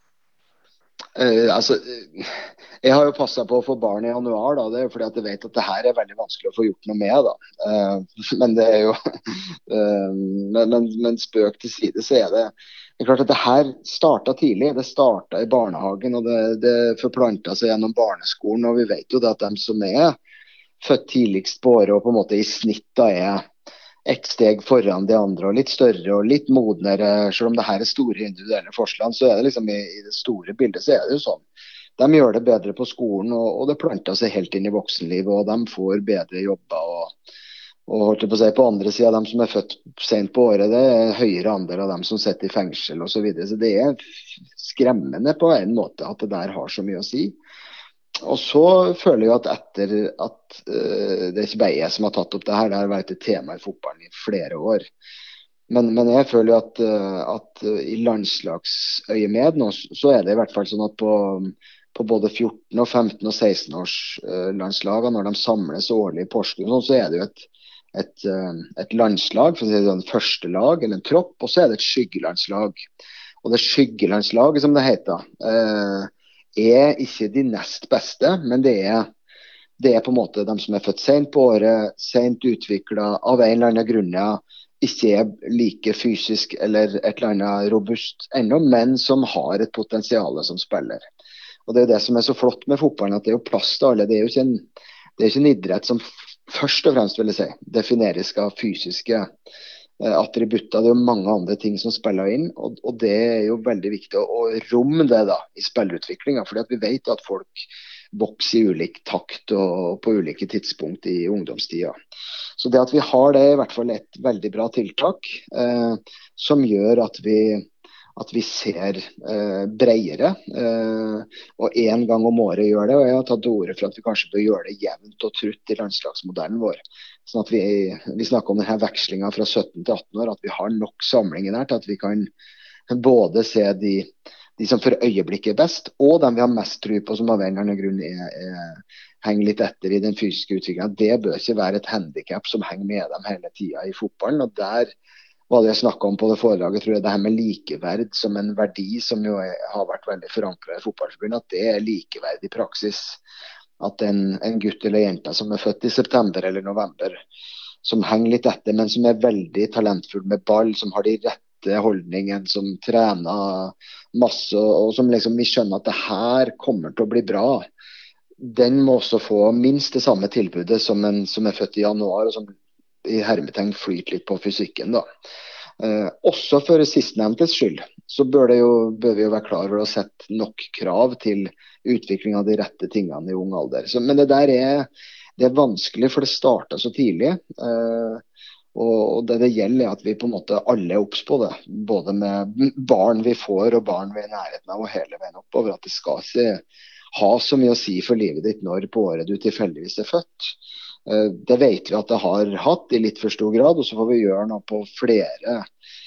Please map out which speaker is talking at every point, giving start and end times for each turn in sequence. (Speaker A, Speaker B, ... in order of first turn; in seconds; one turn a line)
Speaker A: 1.2-20.2
Speaker A: 20.8-23.4
Speaker A: 24.1-31.4
Speaker A: 32.0-37.1
Speaker A: 37.9-44.0
Speaker A: 44.5-47.4
Speaker A: 48.2-54.9
Speaker A: 55.7-72.8
Speaker A: 73.4-79.1
Speaker A: 79.8-91.0
Speaker A: 91.7-94.6
Speaker A: 95.2-99.3
Speaker A: 100.0-111.9
Speaker A: 112.6-132.3
Speaker A: 132.9-144.9
Speaker A: 145.5-153.2
Speaker A: 153.8-157.2
Speaker A: 157.8-167.7
Speaker A: 168.4-172.5
Speaker A: 173.1-175.1
Speaker A: 175.8-188.2
Speaker A: 188.8-196.6
Speaker A: 197.1-200.5
Speaker A: 201.1-205.7